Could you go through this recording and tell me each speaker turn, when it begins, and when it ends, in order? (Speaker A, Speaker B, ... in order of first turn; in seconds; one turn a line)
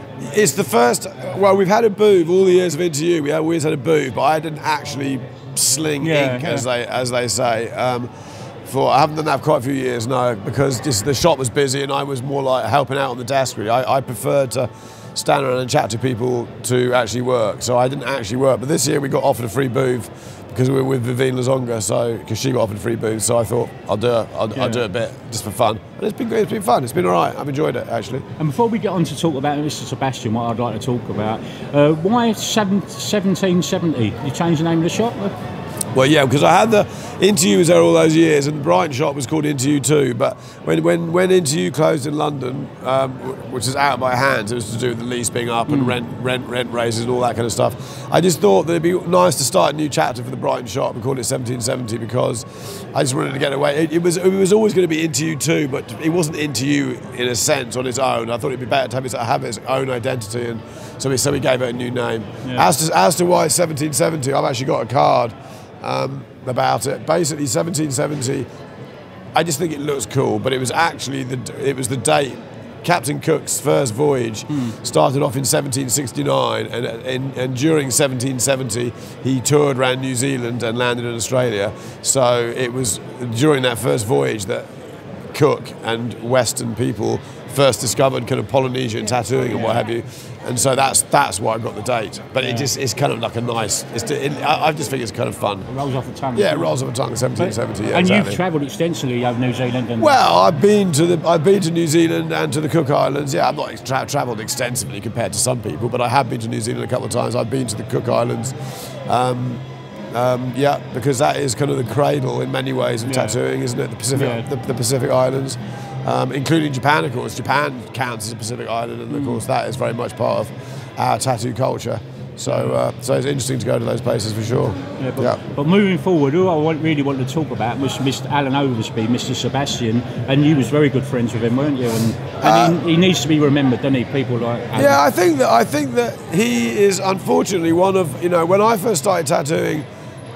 Speaker A: 0.2-8.1
Speaker B: 6.0-6.7
Speaker A: 8.7-28.2
Speaker B: 24.6-24.9
Speaker B: 28.4-35.3
Speaker A: 35.9-68.5
Speaker B: 45.7-46.0
Speaker A: 69.4-84.7
Speaker A: 85.3-95.7
Speaker B: 89.5-89.8
Speaker B: 92.4-92.7
Speaker B: 95.7-96.8
Speaker A: 96.4-98.4
Speaker B: 97.4-100.2
Speaker A: 100.0-109.6
Speaker A: 110.1-125.4
Speaker B: 113.0-113.4
Speaker B: 114.1-114.5
Speaker B: 119.1-119.4
Speaker B: 125.0-135.0
Speaker A: 132.4-132.8
Speaker A: 134.8-139.8